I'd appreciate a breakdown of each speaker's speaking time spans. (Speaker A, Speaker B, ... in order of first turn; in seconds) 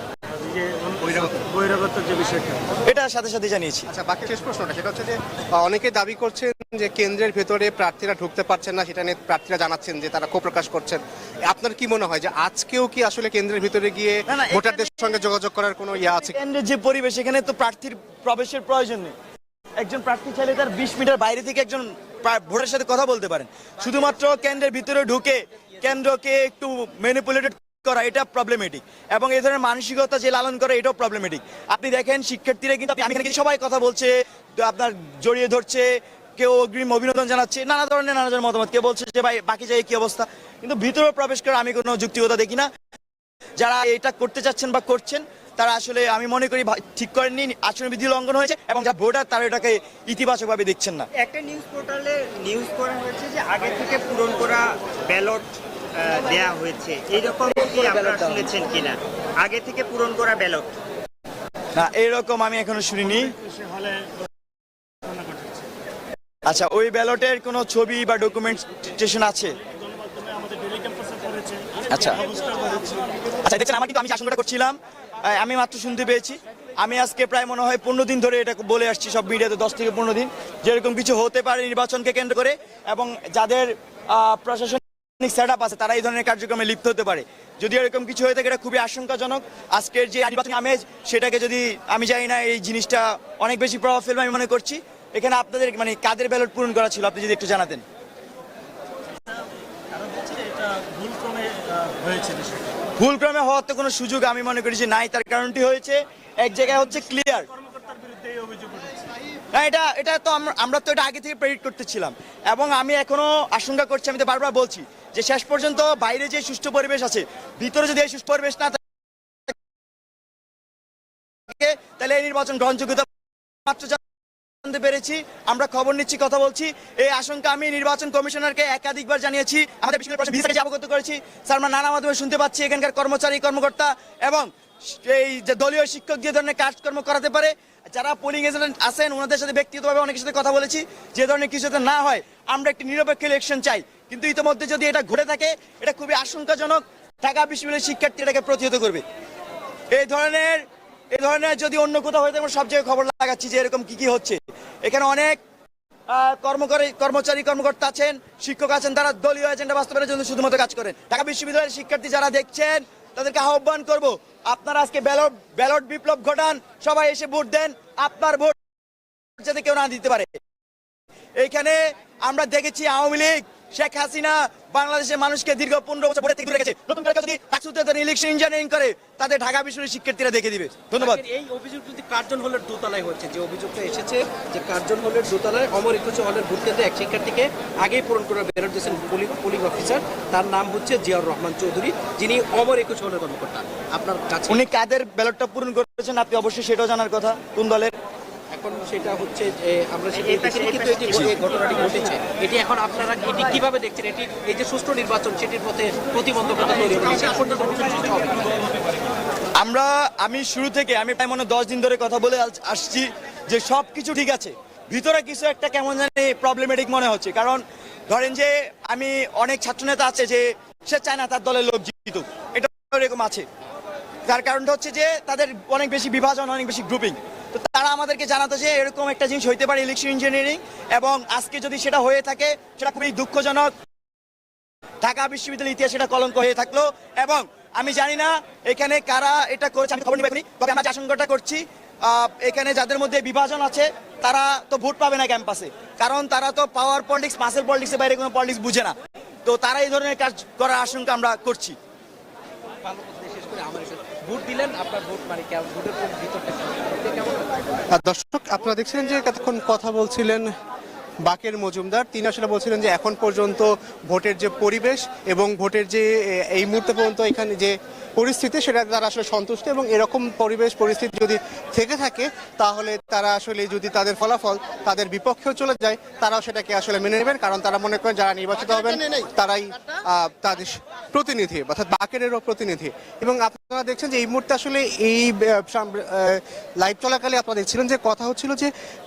Speaker A: 0.5-2.6, 70.3-71.5, 72.3-72.6, 99.9-102.7, 107.9-109.0
Speaker B: 2.9-3.9, 14.3-15.2, 16.0-19.1, 19.8-42.7, 43.6-51.1, 61.8-63.3, 66.5-69.6, 71.9-72.2, 73.4-97.8, 103.0-107.5, 109.5-118.8, 121.5-123.1, 123.7-124.0, 124.6-149.1, 149.9-155.4, 156.1-168.6, 169.4-170.3, 171.4-181.2, 194.5-197.9, 209.6-223.5, 224.3-233.7, 235.0-251.8
Speaker C: 3.9-16.4, 257.9-260.5, 261.2-288.7
Speaker D: 51.2-60.7, 200.2-202.1
Speaker E: 181.0-194.6, 198.5-208.6, 252.8-257.6